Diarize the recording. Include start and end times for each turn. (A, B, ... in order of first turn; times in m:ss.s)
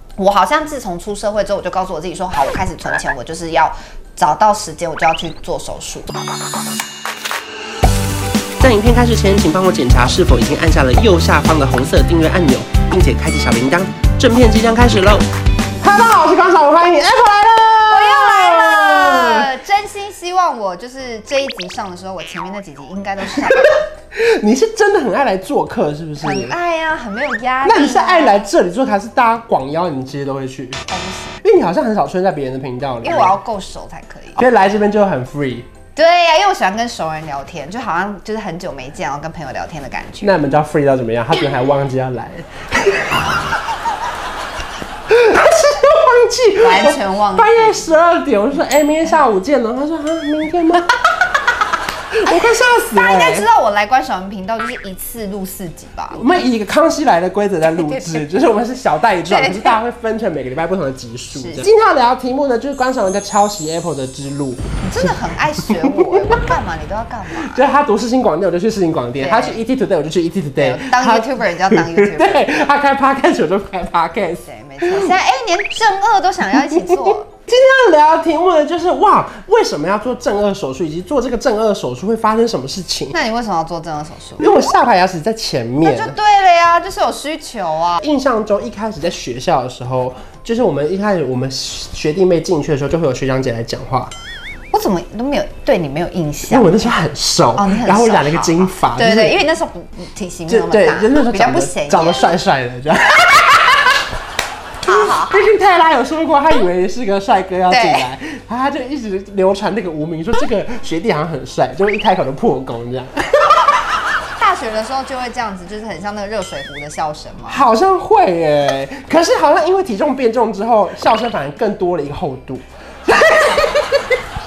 0:00.2-0:06.1 A
0:08.6-0:15.2 B
0:15.8-0:19.5 B
0:17.9-0:23.8 A
0:23.3-0:26.6 B
0:26.2-0:28.5 A
0:27.6-0:30.9 B
0:30.9-0:31.4 A
0:31.4-0:33.4 B
0:33.0-0:34.4 A
0:34.4-0:35.7 B
0:35.9-0:40.3 A
0:40.2-0:43.4 B
0:45.1-0:51.0 B
0:46.6-0:47.9 A
0:52.1-0:53.5 B
0:52.3-0:56.4 A
0:56.1-1:05.1 B
0:57.8-0:58.3 A
0:59.2-0:59.8 A
1:01.3-1:01.7 A
1:04.8-1:07.6 A
1:05.7-1:06.4 B
1:07.4-1:15.1 B
1:09.2-1:09.6 A
1:10.6-1:12.6 A
1:14.4-1:17.3 A
1:16.7-1:23.2 B
1:23.1-1:24.5 A
1:24.4-1:26.2 B
1:25.8-1:28.0 A
1:28.0-1:34.1 B
1:34.7-1:37.0 A
1:36.5-1:39.4 B
1:37.5-1:42.4 A
1:40.5-1:43.9 B
1:44.8-1:45.4 A
1:44.9-1:53.8 B
1:47.7-1:48.1 A
1:54.4-1:57.6 A
1:57.5-2:04.2 B